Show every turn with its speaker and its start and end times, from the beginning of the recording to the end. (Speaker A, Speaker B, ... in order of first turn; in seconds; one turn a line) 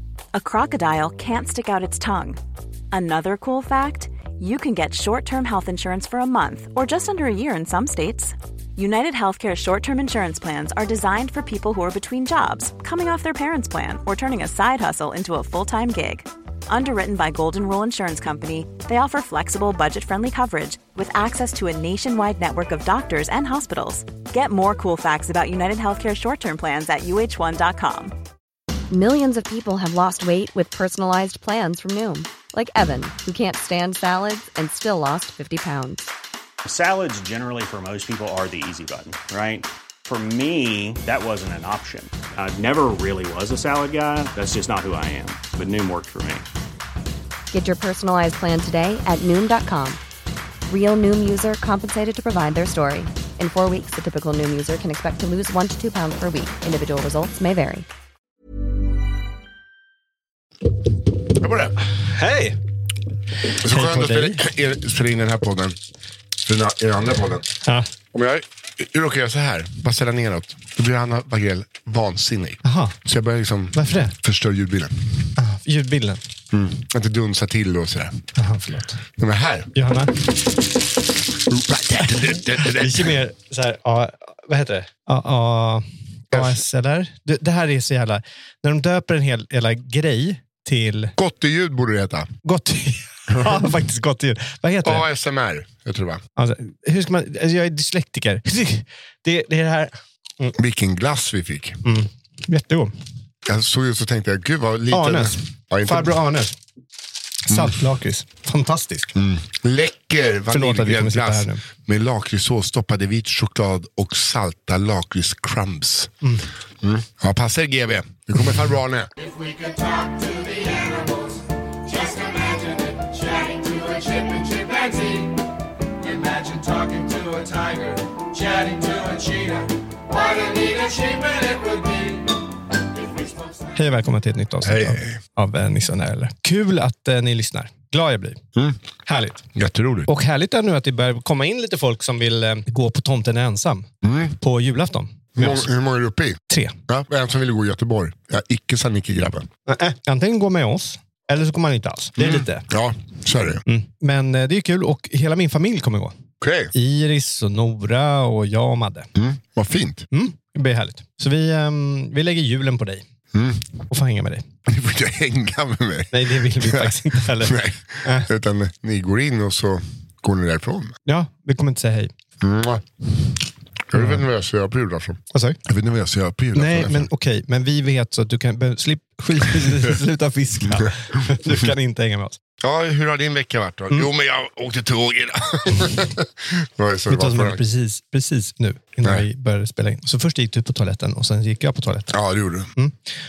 Speaker A: 0.3-2.4
Speaker A: 2.9-28.1
Speaker B: 28.9-36.1
Speaker C: 36.6-46.5
Speaker B: 47.5-50.0
Speaker B: 50.7-57.9
Speaker D: 61.4-61.8
Speaker E: 62.0-62.6
Speaker E: 63.6-64.5
Speaker D: 63.6-65.8
Speaker D: 66.4-67.5
Speaker E: 67.6-67.9
Speaker D: 68.1-75.3
Speaker E: 72.7-73.0
Speaker E: 73.7-74.2
Speaker E: 75.4-76.2
Speaker D: 76.5-78.3
Speaker E: 78.4-79.0
Speaker D: 79.2-79.7
Speaker E: 79.8-80.1
Speaker D: 81.4-83.2
Speaker E: 82.6-91.2
Speaker D: 86.3-86.6
Speaker D: 91.2-92.3
Speaker E: 92.4-95.1
Speaker D: 93.3-93.8
Speaker D: 94.8-96.2
Speaker E: 96.4-100.6
Speaker D: 100.6-101.8
Speaker E: 101.8-102.9
Speaker D: 103.5-106.2
Speaker E: 104.9-106.6
Speaker E: 107.4-109.2
Speaker D: 107.5-107.8
Speaker D: 109.2-116.1
Speaker E: 110.5-111.6
Speaker D: 116.8-119.1
Speaker E: 133.7-138.4
Speaker D: 134.6-135.2
Speaker E: 139.1-139.5
Speaker D: 139.6-140.1
Speaker E: 140.1-145.7
Speaker D: 144.0-144.4
Speaker D: 145.4-149.5
Speaker E: 146.5-146.8
Speaker E: 149.7-152.7
Speaker D: 152.2-153.6
Speaker E: 153.7-156.2
Speaker D: 156.4-156.7
Speaker E: 156.7-159.1
Speaker D: 159.2-160.1
Speaker E: 160.1-163.1
Speaker D: 163.3-163.7
Speaker E: 163.9-164.5
Speaker D: 164.7-171.0
Speaker E: 166.1-168.3
Speaker E: 171.1-172.1
Speaker D: 172.4-177.1
Speaker E: 173.9-174.2
Speaker E: 175.3-175.6
Speaker E: 176.5-182.4
Speaker D: 179.5-179.9
Speaker D: 182.6-187.6
Speaker E: 187.1-192.2
Speaker D: 192.1-192.7